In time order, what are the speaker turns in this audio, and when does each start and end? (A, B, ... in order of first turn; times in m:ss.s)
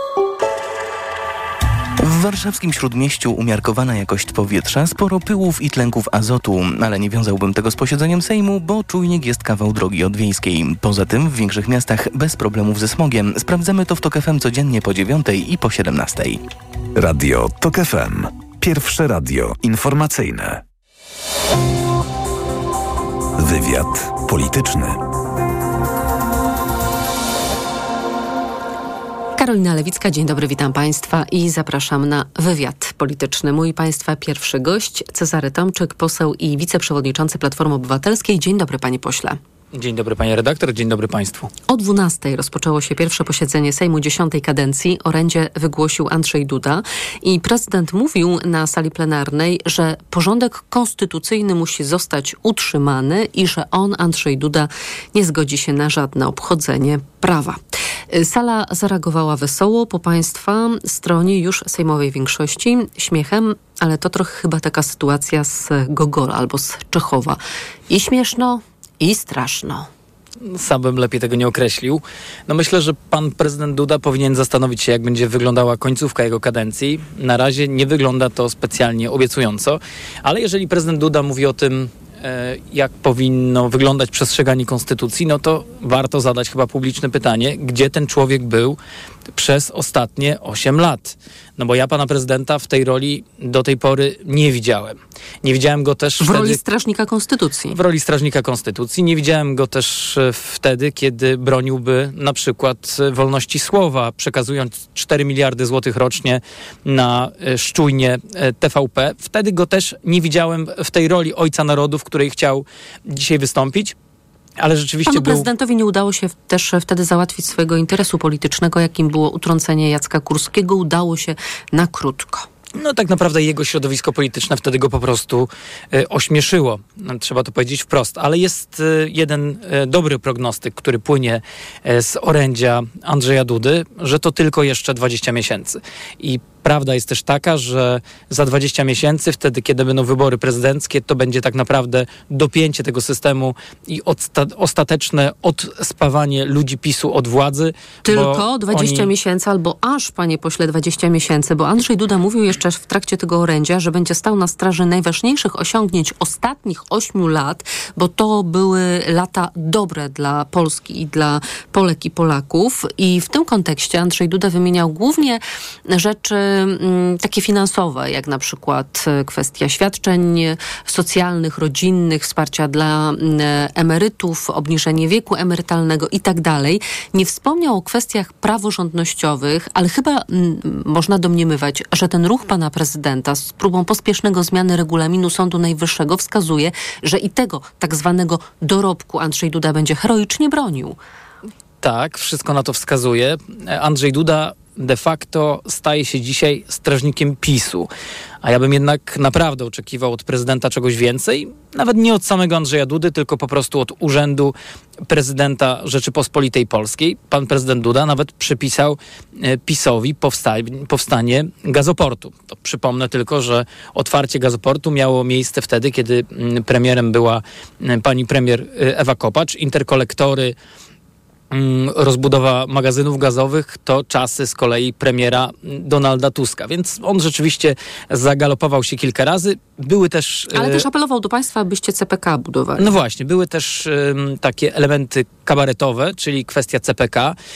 0:02.0-0:16.4 A
0:17.0-0:20.6 B
0:23.4-0:25.0 B
0:29.4-0:39.4 C
0:39.8-0:41.5 D
0:41.7-0:57.6 C
0:58.1-1:09.9 C
1:10.6-1:28.8 D
1:29.4-1:36.6 D
1:36.2-1:37.8 C
1:37.7-1:53.9 D
1:54.6-1:55.4 D
1:55.1-2:02.5 C
2:02.8-2:29.1 D
2:28.1-3:11.0 C
3:11.8-3:17.9 D
3:18.4-3:24.5 D
3:25.1-3:29.0 D
3:29.6-3:40.5 D
3:41.5-3:50.8 D
3:50.6-3:52.9 C
3:52.8-3:57.3 D